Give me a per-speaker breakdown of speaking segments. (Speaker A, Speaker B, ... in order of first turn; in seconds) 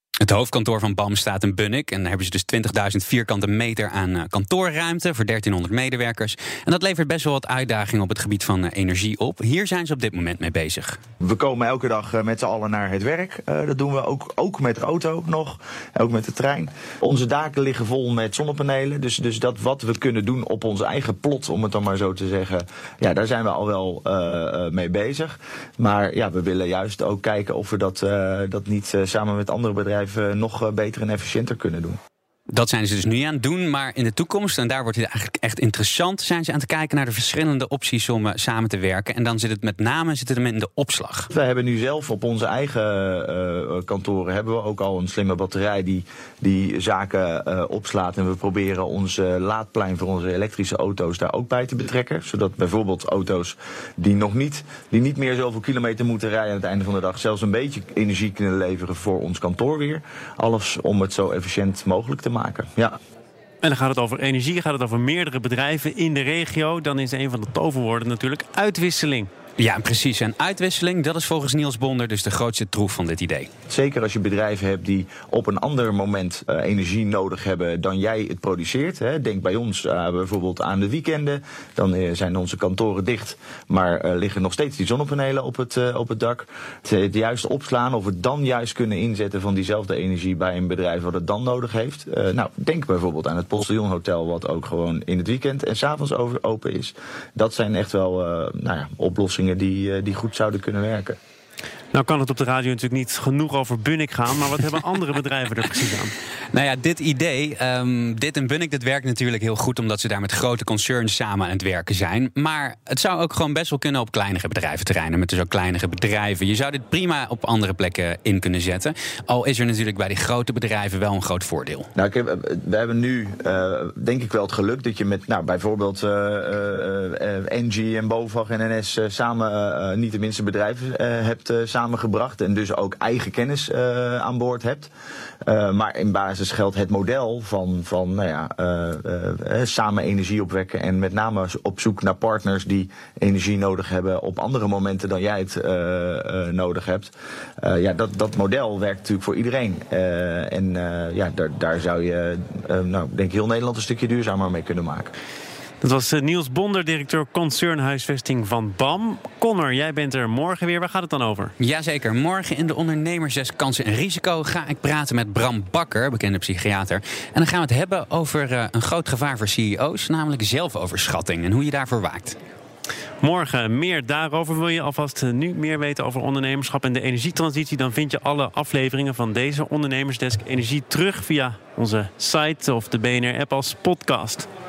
Speaker A: 0.2-11.0, 32.5-41.3, 69.6-73.5, 106.5-121.9, 161.6-172.4
Speaker B: 11.2-32.0, 41.3-63.0, 73.7-101.2, 122.0-134.9, 135.4-155.1
Speaker C: 63.6-69.3, 101.9-106.1, 155.8-161.5, 173.2-184.5